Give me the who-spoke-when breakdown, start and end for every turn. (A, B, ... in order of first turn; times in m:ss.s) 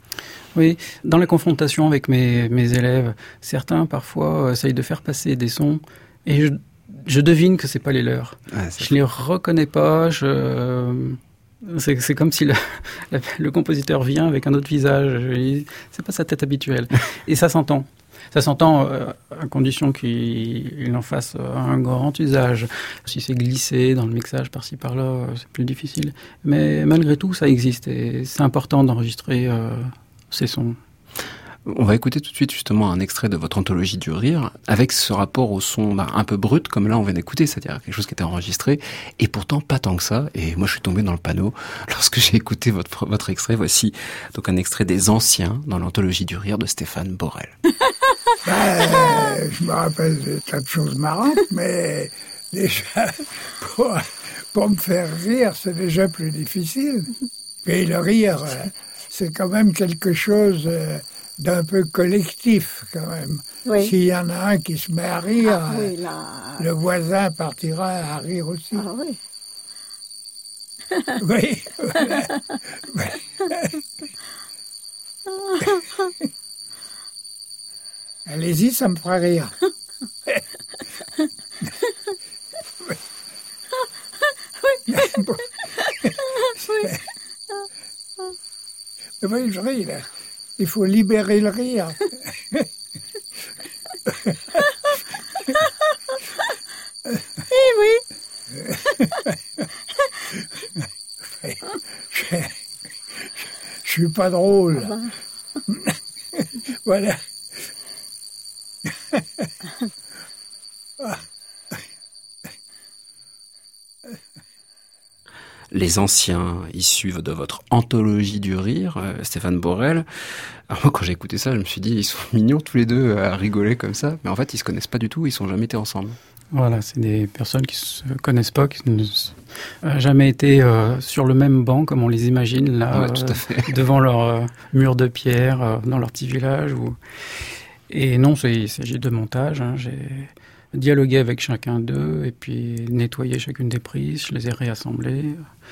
0:00.5-0:30.8 A
0:08.5-0:08.9 B
0:31.6-0:47.6 B
0:48.4-0:57.1 C
0:57.6-1:05.9 C
1:03.6-1:03.9 D
1:05.5-1:06.7 D
1:06.6-1:08.8 C
1:08.7-1:09.2 D
1:11.2-1:12.2 C
1:15.4-1:15.8 D
1:18.3-1:19.5 C
1:24.6-1:25.2 D
1:24.9-1:25.4 C
1:29.2-1:30.0 C
1:30.6-1:32.0 C
1:37.5-1:38.0 D
1:42.1-1:42.5 C
1:43.8-1:45.0 C
1:46.4-1:47.2 C
1:55.7-2:00.0 B
2:00.7-2:06.2 B
2:06.5-2:17.0 A
2:12.9-2:13.7 B
2:17.9-2:25.4 A